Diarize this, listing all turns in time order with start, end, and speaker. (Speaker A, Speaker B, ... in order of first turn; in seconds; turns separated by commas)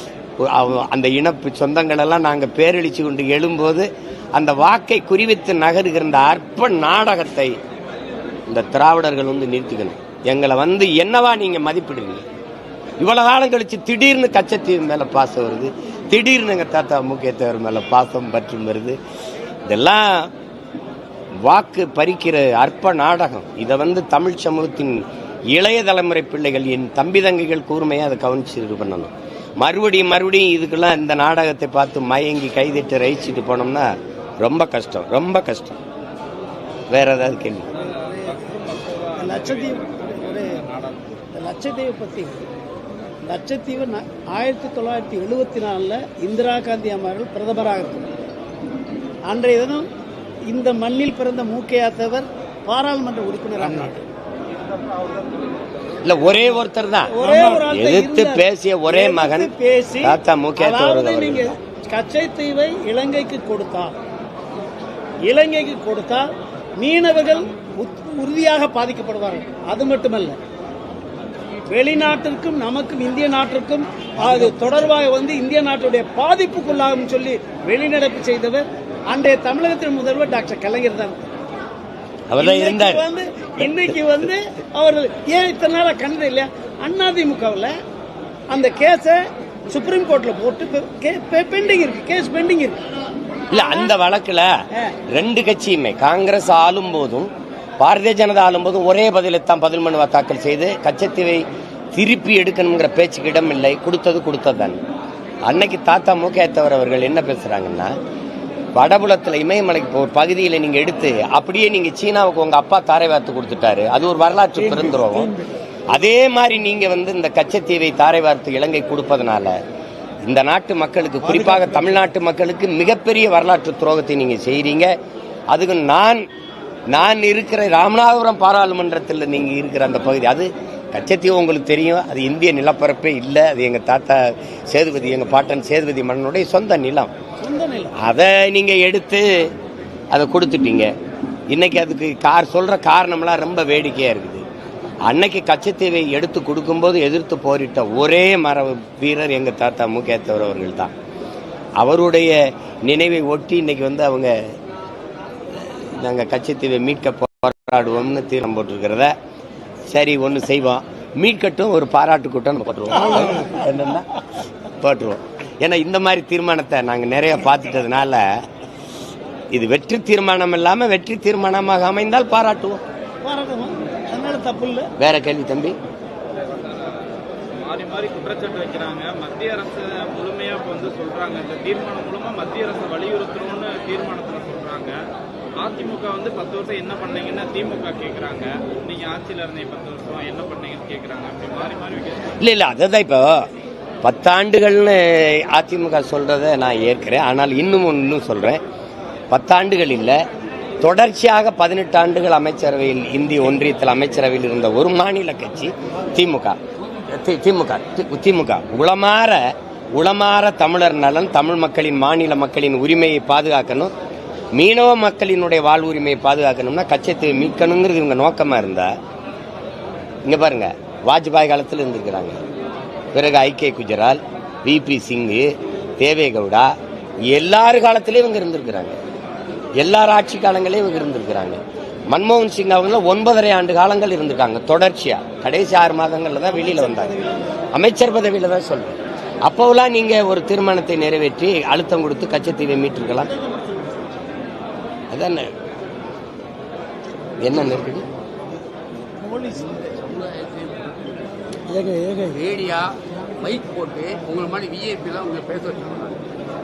Speaker A: 0.4-7.5, Speaker A: 8.5-12.2, Speaker A: 13.0-19.0, Speaker A: 19.7-20.3, Speaker A: 21.4-35.8, Speaker A: 36.9-37.7, Speaker B: 37.7-41.1, Speaker C: 39.2-40.6, Speaker C: 41.2-42.4, Speaker C: 43.2-48.1, Speaker C: 49.3-49.9, Speaker C: 50.5-54.0, Speaker A: 56.0-59.5, Speaker C: 57.1-63.9, Speaker A: 60.0-61.5, Speaker C: 65.2-66.2, Speaker C: 66.8-70.3, Speaker C: 71.7-81.2, Speaker A: 82.3-83.0, Speaker C: 82.4-87.7, Speaker C: 88.5-92.8, Speaker A: 93.5-94.5, Speaker C: 93.5-93.9, Speaker A: 95.1-104.8, Speaker A: 105.5-107.9, Speaker A: 108.8-115.3, Speaker A: 115.9-119.5, Speaker A: 120.2-124.9, Speaker A: 125.5-126.2, Speaker A: 126.9-137.1, Speaker C: 137.4-137.9, Speaker A: 138.0-139.5, Speaker A: 140.1-140.9, Speaker A: 141.5-144.4, Speaker A: 145.1-150.9, Speaker A: 151.8-154.3, Speaker A: 155.6-159.1, Speaker A: 159.9-164.1, Speaker A: 164.8-168.2, Speaker A: 169.5-172.8, Speaker C: 173.2-174.9, Speaker A: 175.0-175.8, Speaker B: 176.4-176.9, Speaker B: 177.6-184.9, Speaker B: 185.6-192.3, Speaker A: 192.4-193.4, Speaker A: 194.0-198.6, Speaker A: 199.3-200.2, Speaker A: 200.8-213.9, Speaker A: 214.5-218.9, Speaker A: 220.2-222.4, Speaker A: 223.1-226.7, Speaker A: 227.3-229.0, Speaker A: 229.8-231.6, Speaker A: 232.1-237.1, Speaker C: 236.5-237.4, Speaker A: 237.7-243.3, Speaker C: 243.3-244.0, Speaker A: 245.1-245.5, Speaker A: 247.4-248.1, Speaker C: 249.2-249.9, Speaker D: 249.8-251.0, Speaker D: 251.8-256.2